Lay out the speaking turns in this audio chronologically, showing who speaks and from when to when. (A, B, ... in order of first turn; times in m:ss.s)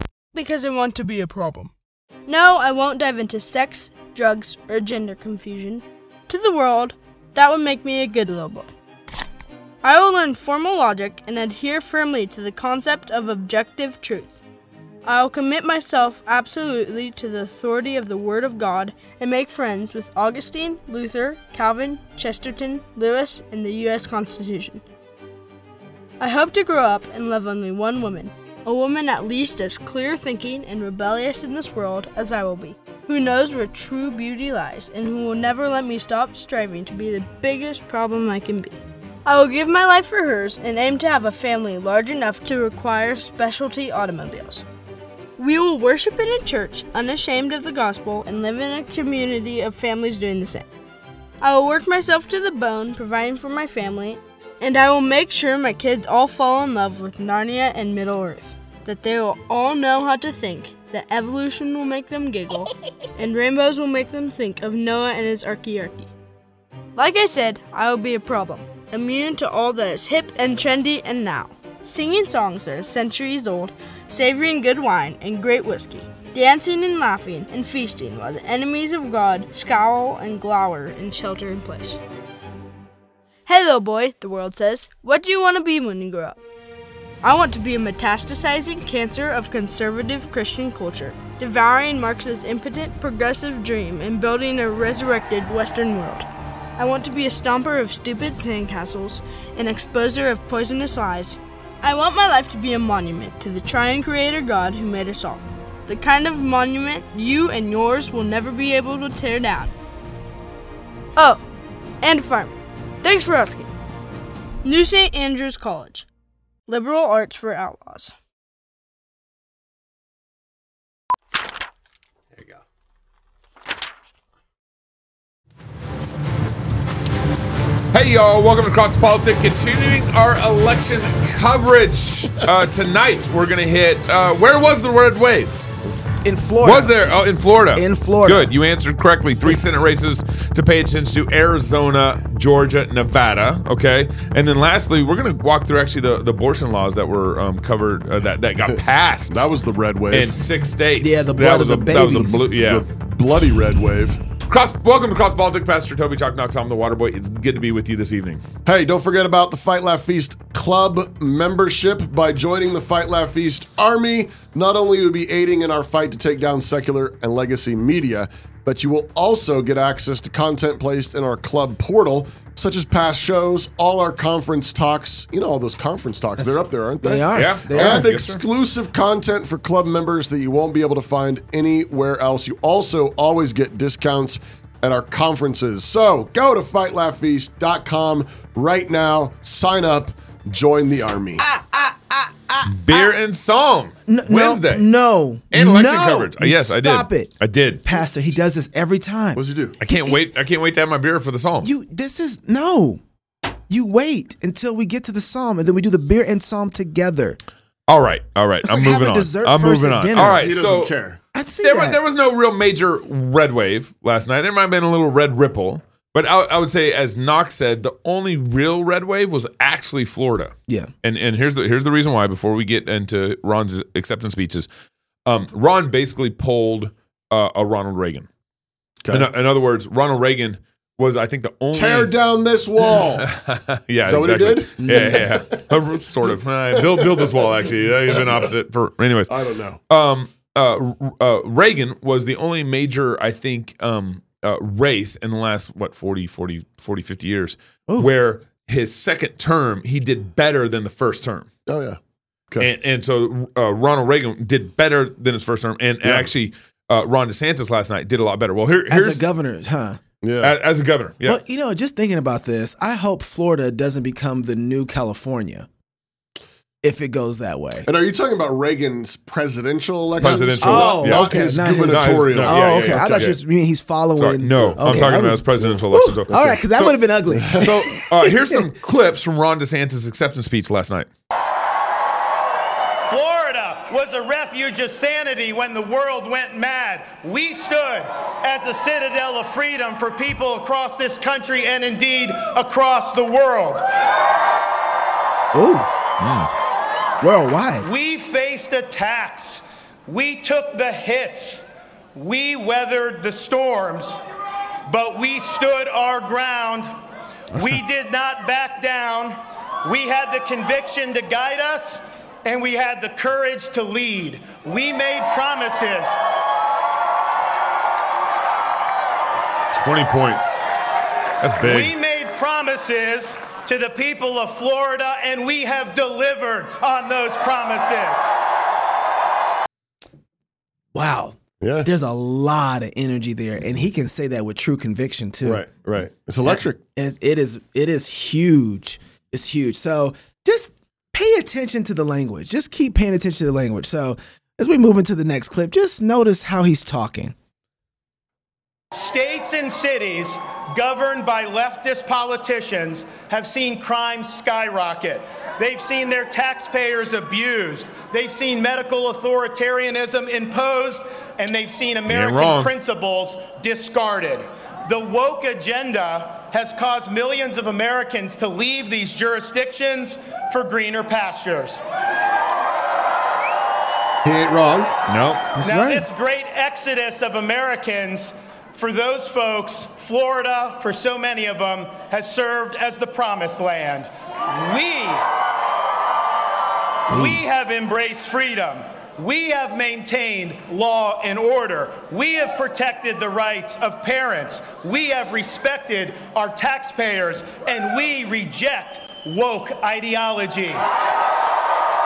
0:00.3-0:01.7 A
0:02.3-0:08.7 A
0:09.8-0:14.4 A
0:15.0-0:24.8 A
0:26.2-0:44.6 A
0:45.4-0:50.6 A
0:51.4-1:06.1 A
1:07.0-1:22.0 A
1:23.5-1:26.4 A
1:27.2-1:36.3 A
1:36.8-1:49.7 A
1:51.2-1:51.4 A
1:52.0-1:53.7 A
1:54.6-1:56.1 A
1:56.7-1:58.1 A
2:07.9-2:15.6 B
2:16.2-2:17.2 C
2:16.6-2:29.4 B
2:17.7-2:18.5 C
2:29.3-2:30.4 D
2:30.1-2:32.8 B
2:31.0-2:32.5 C
2:32.5-2:34.2 D
2:34.5-2:38.4 B
2:38.6-3:11.4 D
2:57.0-2:58.1 C
2:57.3-2:58.4 B
3:11.4-3:13.1 C
3:12.7-3:14.8 B
3:14.1-3:17.3 C
3:15.5-3:17.8 B
3:17.8-3:20.2 C
3:19.3-3:19.8 D
3:19.8-3:21.7 B
3:21.6-3:23.0 C
3:23.7-3:27.4 C
3:27.9-3:30.9 B
3:28.6-3:30.5 C
3:30.3-3:31.2 D
3:31.3-3:32.0 C
3:31.6-3:44.7 B
3:45.2-3:48.3 B
3:49.1-3:52.1 B
3:51.7-3:53.3 D
3:52.9-3:59.3 B
3:54.0-3:55.8 D
3:54.8-3:55.2 C
3:56.3-3:57.5 D
3:58.1-3:58.5 D
3:59.3-3:59.8 D
3:59.9-4:11.5 B
4:11.7-4:12.0 D
4:12.6-4:19.3 B
4:16.0-4:16.3 D
4:18.9-4:20.0 C
4:20.2-4:20.5 D
4:20.4-4:21.4 B
4:21.2-4:25.7 C
4:26.8-4:27.9 C
4:27.8-4:33.3 D
4:30.2-4:33.4 B
4:30.2-4:38.7 C
4:34.2-4:37.0 B
4:34.6-4:36.5 D
4:37.4-4:37.7 D
4:37.5-4:41.1 B
4:43.0-4:53.8 E
4:55.5-4:55.9 C
4:56.2-4:56.5 B
4:57.2-4:57.9 C
4:57.8-5:01.6 E
5:02.2-5:04.2 E
5:04.8-5:06.9 E
5:07.5-5:16.2 E
5:19.7-5:20.6 B
5:21.4-5:21.9 B
5:21.6-5:28.3 E
5:30.9-5:35.6 C
5:31.6-5:31.9 D
5:35.4-5:36.8 D
5:36.4-5:47.3 C
5:48.9-6:11.8 E
6:02.1-6:02.7 B
6:14.2-6:14.9 D
6:15.1-6:15.5 B
6:15.6-6:16.0 C
6:15.6-6:25.3 E
6:27.1-6:40.8 E
6:27.1-6:27.4 C